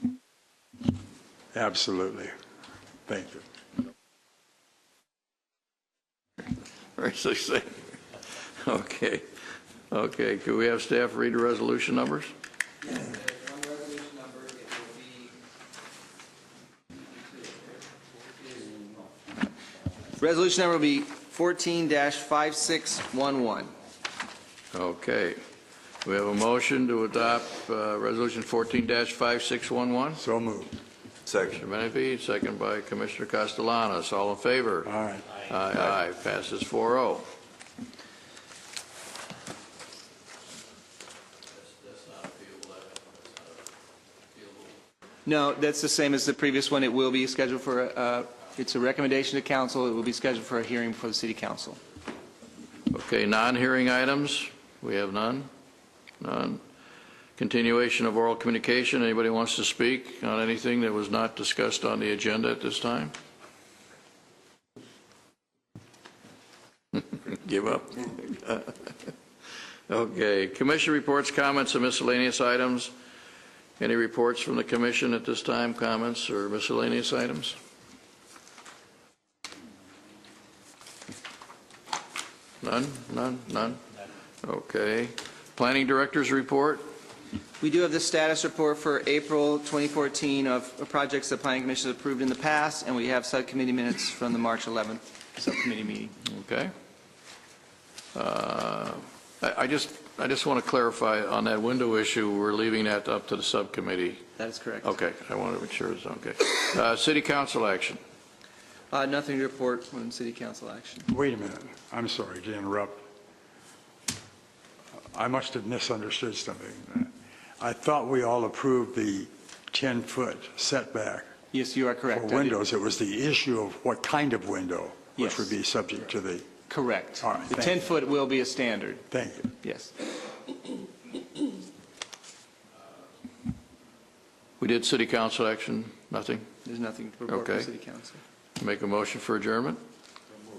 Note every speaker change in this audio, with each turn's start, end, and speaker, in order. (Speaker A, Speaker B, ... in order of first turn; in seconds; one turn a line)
Speaker A: 1.5-2.3
Speaker A: 3.1-3.4
Speaker B: 7.0-8.0
Speaker B: 8.6-9.2
Speaker B: 9.9-12.3
Speaker C: 12.8-15.3
Speaker C: 20.2-23.7
Speaker B: 24.7-25.4
Speaker B: 26.0-30.2
Speaker A: 30.2-30.7
Speaker B: 31.3-34.9
Speaker A: 34.8-35.4
Speaker B: 35.4-37.3
Speaker B: 41.5-43.6
Speaker B: 44.3-44.8
Speaker C: 45.2-51.8
Speaker B: 52.9-55.5
Speaker B: 56.2-56.6
Speaker B: 57.4-63.1
Speaker B: 66.9-69.1
Speaker B: 69.9-72.9
Speaker B: 73.8-77.6
Speaker B: 82.6-83.8
Speaker B: 84.4-86.8
Speaker C: 87.6-96.2
Speaker B: 96.2-96.7
Speaker B: 98.1-104.2
Speaker C: 104.4-104.9
Speaker B: 104.8-108.0
Speaker C: 108.9-111.0
Speaker A: 111.1-113.0
Speaker A: 115.1-121.3
Speaker C: 121.5-122.6
Speaker A: 122.1-126.6
Speaker C: 125.2-125.5
Speaker C: 126.7-129.1
Speaker A: 127.2-127.8
Speaker A: 129.1-129.5
Speaker C: 129.6-129.9
Speaker B: 134.6-136.4
Speaker C: 136.6-138.2
Speaker B: 137.3-137.7
Speaker B: 138.6-139.8